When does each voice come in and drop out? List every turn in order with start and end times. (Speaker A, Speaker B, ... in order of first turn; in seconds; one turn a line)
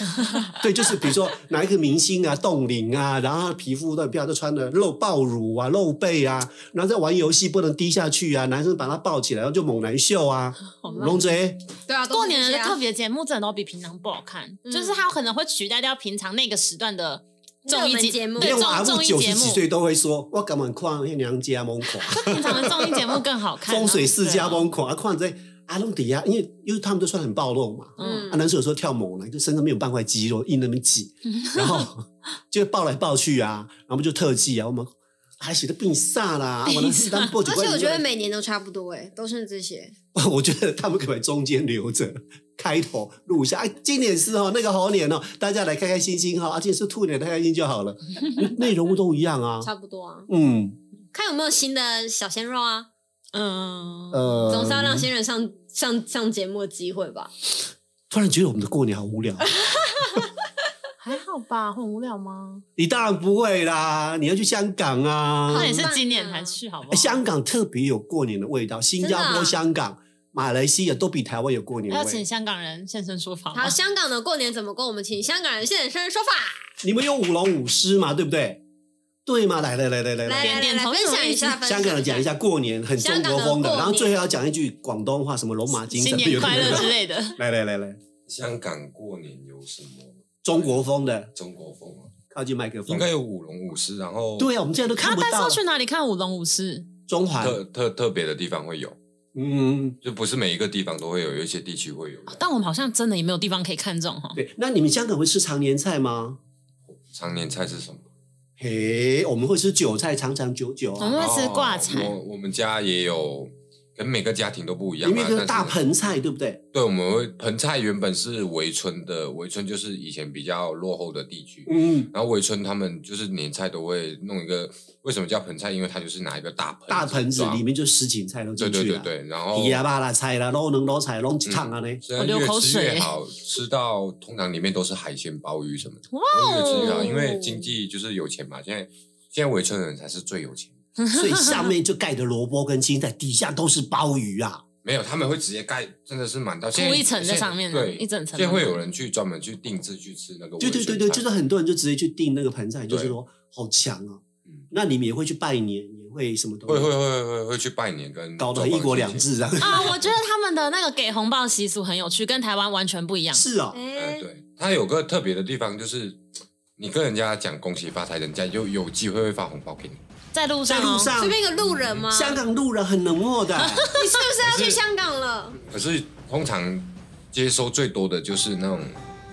Speaker A: 0.1-0.6
Speaker B: 0.5-11.6
Speaker A: 10.8-11.2
Speaker C: 11.9-12.8
Speaker A: 12.1-19.6
Speaker C: 14.6-15.0
Speaker C: 17.6-18.6
Speaker B: 18.4-38.0
Speaker A: 22.1-24.7
Speaker A: 28.0-28.3
Speaker C: 28.0-28.4
Speaker A: 31.2-31.9
Speaker A: 36.6-37.3
Speaker C: 37.5-39.9
Speaker B: 40.1-49.7
Speaker C: 49.6-50.3
Speaker B: 50.3-50.8
Speaker C: 51.1-52.9
Speaker A: 53.3-54.4
Speaker B: 54.1-55.1
Speaker C: 54.5-57.3
Speaker B: 58.1-59.5
Speaker C: 59.5-60.2
Speaker A: 61.0-62.6
Speaker B: 62.8-65.9
Speaker C: 65.5-66.6
Speaker A: 65.5-67.2
Speaker B: 66.9-72.2
Speaker C: 69.0-69.6
Speaker A: 71.9-73.8
Speaker C: 73.5-76.6
Speaker B: 76.8-78.6
Speaker B: 79.2-80.6
Speaker C: 80.2-82.3
Speaker A: 80.4-81.6
Speaker B: 81.7-88.0
Speaker C: 83.0-84.2
Speaker A: 85.7-87.4
Speaker D: 88.3-90.8
Speaker B: 90.4-91.3
Speaker D: 91.3-92.1
Speaker B: 92.3-93.1
Speaker D: 92.9-94.5
Speaker B: 94.4-95.6
Speaker A: 95.0-96.9
Speaker B: 97.1-97.6
Speaker D: 97.4-99.0
Speaker B: 99.3-100.0
Speaker D: 100.0-102.4
Speaker A: 102.3-104.4
Speaker B: 104.3-106.4
Speaker D: 106.9-108.0
Speaker B: 108.6-111.2
Speaker A: 111.0-112.2
Speaker D: 111.1-115.8
Speaker B: 115.0-116.6
Speaker D: 116.7-127.6
Speaker B: 121.7-122.1
Speaker B: 126.9-132.0
Speaker D: 128.6-129.8
Speaker D: 131.4-140.8
Speaker A: 132.2-133.1
Speaker A: 136.1-137.6
Speaker A: 141.0-141.7
Speaker B: 141.1-144.6
Speaker D: 144.8-151.2
Speaker A: 146.7-148.8
Speaker B: 150.6-156.9
Speaker D: 152.9-153.2
Speaker D: 156.7-159.3
Speaker B: 158.4-159.9
Speaker A: 159.6-163.4
Speaker B: 163.3-163.8
Speaker C: 163.7-164.3
Speaker D: 163.9-166.2
Speaker D: 166.8-170.0
Speaker A: 170.3-171.1
Speaker B: 170.7-171.4
Speaker C: 171.2-172.4
Speaker D: 171.6-172.1
Speaker B: 172.1-173.9
Speaker A: 173.6-174.1
Speaker C: 173.9-175.6
Speaker D: 174.4-174.8
Speaker D: 175.7-179.0